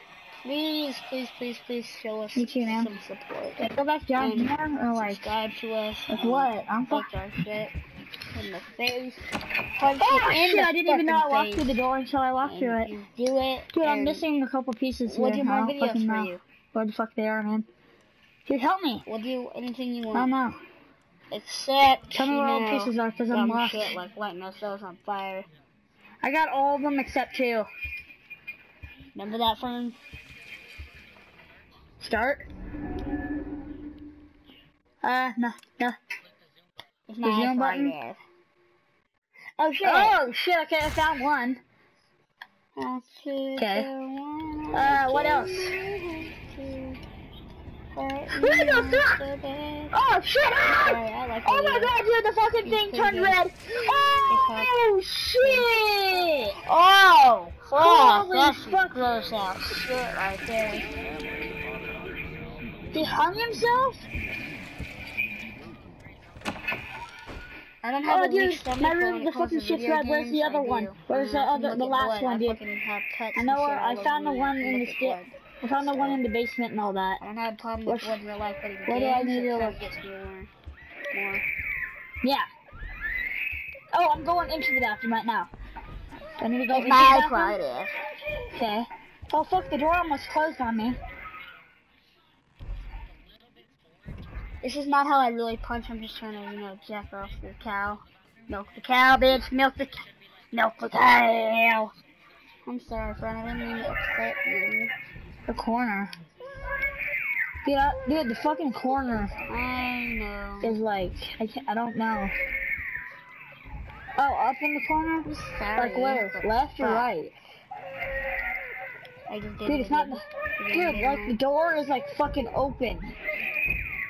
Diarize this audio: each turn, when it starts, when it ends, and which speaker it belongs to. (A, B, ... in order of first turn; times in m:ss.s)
0:00.4-0:07.7 A
0:02.3-0:02.9 B
0:03.6-0:05.2 B
0:06.1-0:07.1 B
0:08.3-0:09.2 A
0:09.8-0:11.8 A
0:10.0-0:12.9 B
0:12.4-0:14.2 A
0:13.7-0:17.7 B
0:15.0-0:16.4 A
0:18.5-0:19.0 B
0:19.0-0:20.3 A
0:20.1-0:20.6 B
0:21.3-0:25.5 A
0:22.1-0:23.9 B
0:26.2-0:27.7 B
0:29.1-0:30.0 A
0:32.0-0:32.4 B
0:35.0-0:36.0 B
0:37.1-0:38.2 A
0:37.2-0:38.0 B
0:39.6-0:40.2 A
0:39.8-0:41.6 B
0:42.8-0:47.0 A
0:43.6-0:43.9 B
0:44.7-0:45.8 B
0:47.9-0:49.9 A
0:48.4-0:49.1 B
0:49.9-0:56.6 B
0:50.8-0:51.9 A
0:52.6-0:53.4 A
0:54.3-0:54.8 A
0:55.4-0:55.7 A
0:56.6-1:00.9 A
0:57.8-0:59.1 B
1:02.9-1:04.1 B
1:07.8-1:16.2 A
1:08.0-1:12.6 B
1:13.3-1:17.2 B
1:17.2-1:20.5 A
1:17.8-1:18.2 B
1:18.9-1:19.8 B
1:21.1-1:21.4 A
1:22.2-1:22.5 B
1:23.9-1:25.5 B
1:26.4-1:27.6 B
1:26.7-1:27.9 A
1:28.5-1:31.0 B
1:34.6-1:41.9 A
1:42.6-1:44.9 A
1:45.5-1:46.1 B
1:47.6-1:49.3 B
1:49.4-1:50.8 A
1:50.6-1:52.3 B
1:54.2-1:57.3 B
1:55.2-1:57.1 A
1:59.3-2:01.4 A
1:59.6-2:03.1 B